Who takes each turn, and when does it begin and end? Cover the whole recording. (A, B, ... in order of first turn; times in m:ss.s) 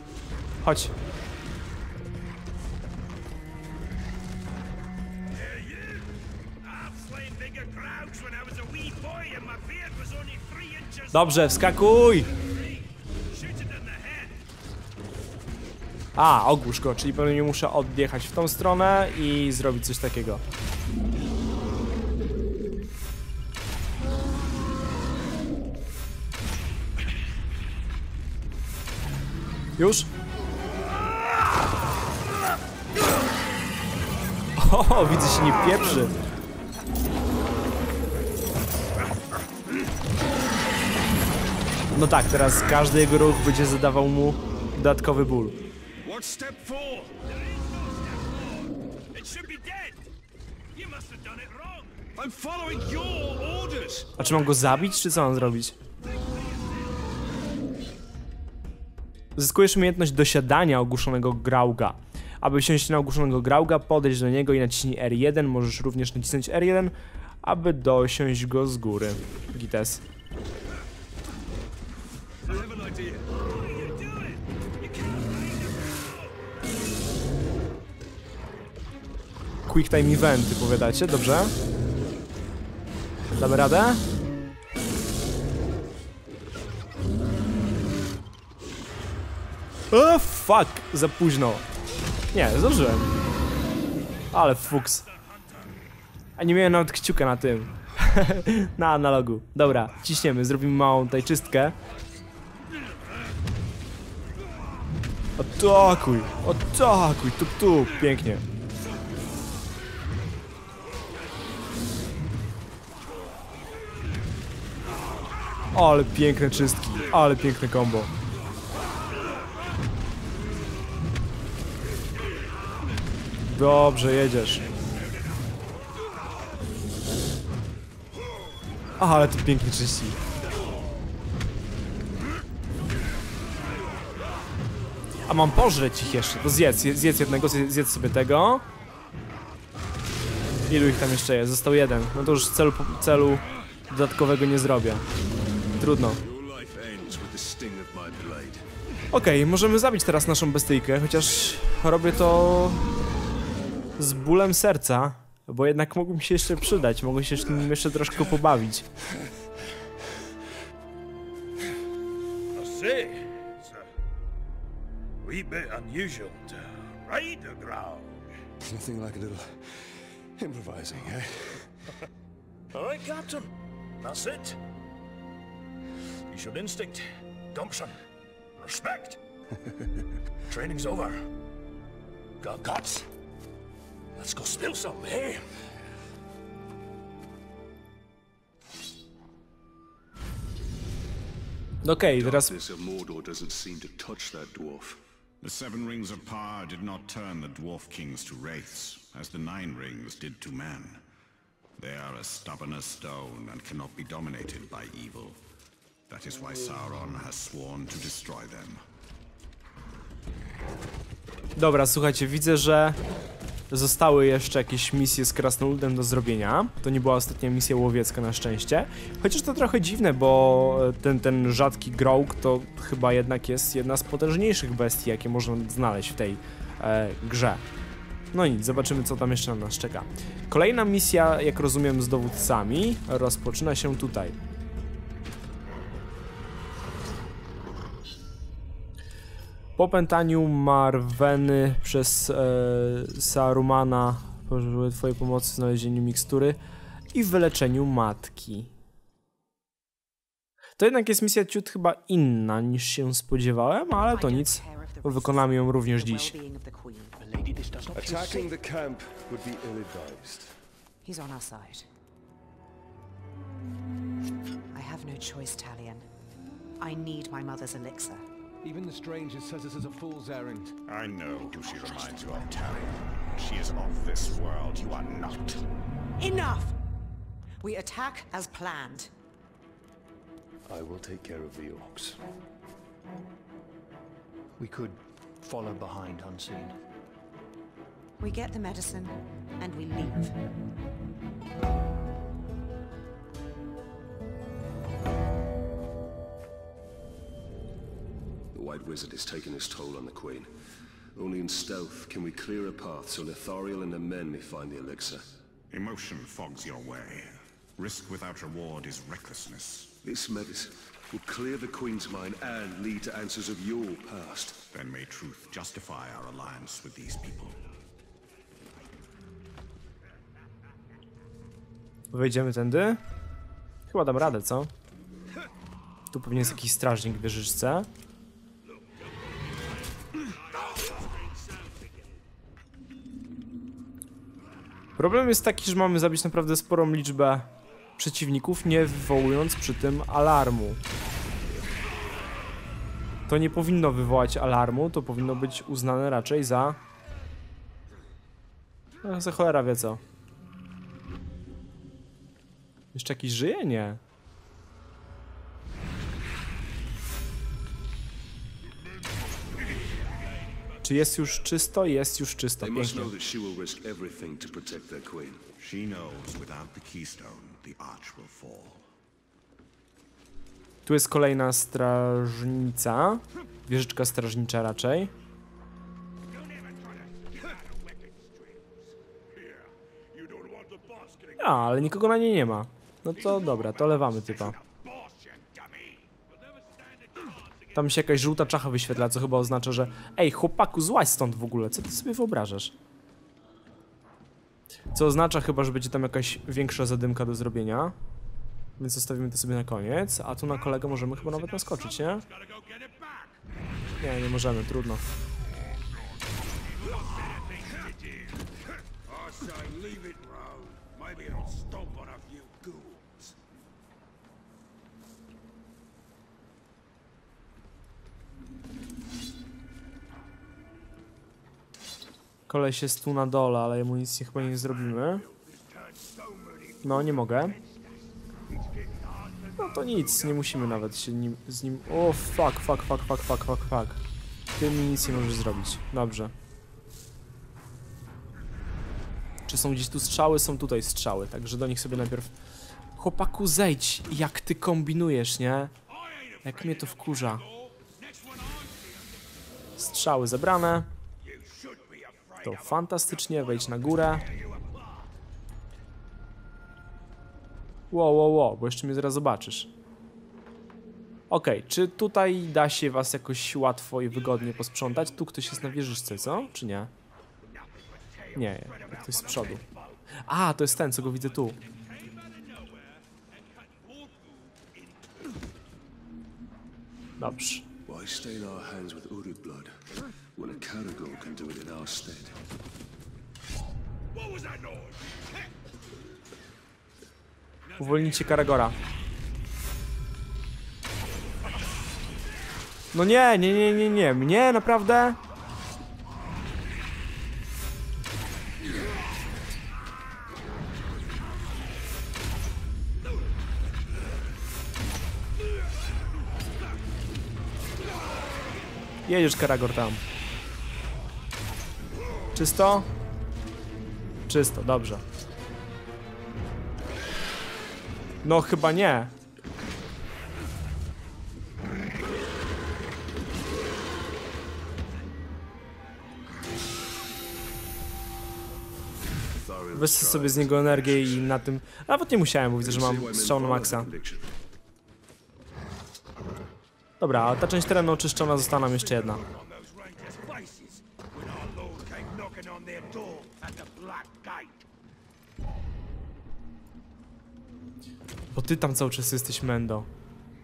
0:00.6-0:00.9 A
0:05.7-0:06.1 B
0:06.7-0:11.3 B
0:11.1-0:12.3 A
0:13.3-0:14.3 B
0:16.2-0:20.4 A
0:29.8-0:30.1 A
0:34.6-0:36.1 A
0:41.9-0:45.6 A
0:46.0-0:47.1 C
0:47.5-0:50.1 B
0:50.8-0:52.1 B
0:52.2-0:54.1 C
0:54.2-0:55.8 A
0:59.4-1:10.0 A
1:12.5-1:13.2 C
1:13.5-1:14.4 B
1:15.0-1:15.9 B
1:19.7-1:21.5 A
1:23.4-1:24.0 A
1:29.9-1:31.6 A
1:32.3-1:33.1 A
1:34.3-1:35.1 A
1:36.4-1:41.8 A
1:45.4-1:48.4 A
1:55.7-1:58.1 A
2:03.5-2:04.6 A
2:09.0-2:10.2 A
2:15.3-2:18.6 A
2:20.7-2:25.0 A
2:25.8-2:26.2 A
2:26.2-2:28.6 C
2:29.1-2:32.8 A
2:34.0-2:38.9 A
2:42.6-2:43.6 B
2:45.2-2:48.2 B
2:48.6-2:51.7 C
2:52.8-2:53.5 B
2:54.0-2:54.6 B
2:56.3-2:57.9 B
2:58.6-2:59.2 B
3:00.5-3:01.1 B
3:02.5-3:03.0 B
3:04.2-3:05.4 B
3:11.8-3:12.6 A
3:12.1-3:15.0 C
3:15.4-3:21.0 D
3:21.8-3:25.4 D
3:26.1-3:28.8 D
3:31.6-3:33.0 A
3:33.7-3:47.6 A
3:48.3-3:54.4 A
3:59.8-4:06.6 A
4:07.1-4:08.7 A
4:10.8-4:16.3 A
4:13.9-4:17.2 E
4:17.2-4:18.6 F
4:18.0-4:20.6 C
4:21.0-4:21.9 E
4:24.7-4:26.1 E
4:26.8-4:28.3 E
4:29.2-4:29.5 C
4:30.1-4:30.4 F
4:30.4-4:30.7 C
4:30.9-4:35.6 D
4:36.2-4:36.8 E
4:37.6-4:39.1 E
4:40.7-4:42.2 C
4:44.6-4:46.8 F
4:48.2-4:50.4 E
4:58.5-5:00.5 C
5:01.2-5:05.3 C
5:05.7-5:10.0 D
5:10.0-5:14.6 C
5:14.7-5:17.6 D
5:22.1-5:23.0 A
5:23.9-5:24.7 A
5:26.1-5:27.9 A
5:35.0-5:40.8 A
5:43.3-5:46.8 A
5:49.0-5:50.0 A
5:52.9-5:54.0 A
6:00.8-6:03.1 A
6:02.6-6:05.4 C
6:05.6-6:08.8 D
6:10.8-6:15.1 A
6:17.9-6:18.3 B
6:20.6-6:21.1 B
6:21.4-6:24.6 A
6:27.7-6:32.7 A
6:34.9-6:38.0 A
6:38.8-6:42.3 A
6:44.0-6:45.0 A
6:49.4-6:53.0 B
7:02.5-7:05.2 A
7:06.8-7:07.6 A
7:09.6-7:14.0 A
7:14.6-7:16.3 A
7:19.5-7:22.3 A
7:23.0-7:25.7 A
7:26.4-7:27.5 A
7:27.9-7:28.7 B
7:29.8-7:30.9 A
7:31.5-7:32.2 B
7:32.4-7:34.3 A
7:37.9-7:39.7 A
7:41.3-7:46.9 A
7:48.3-7:49.6 A
7:50.3-7:51.6 A
7:57.2-7:57.7 A
7:57.9-7:59.8 C
8:00.4-8:02.4 C
8:07.8-8:08.8 A
8:12.9-8:15.2 A
8:29.1-8:30.0 A
8:32.3-8:32.9 A
8:34.3-8:35.0 A
8:38.2-8:39.1 A
8:49.3-8:51.2 C
8:49.7-8:53.9 A
8:52.6-8:54.3 C
8:57.0-8:59.2 A
8:59.9-9:04.4 B
9:08.3-9:09.9 A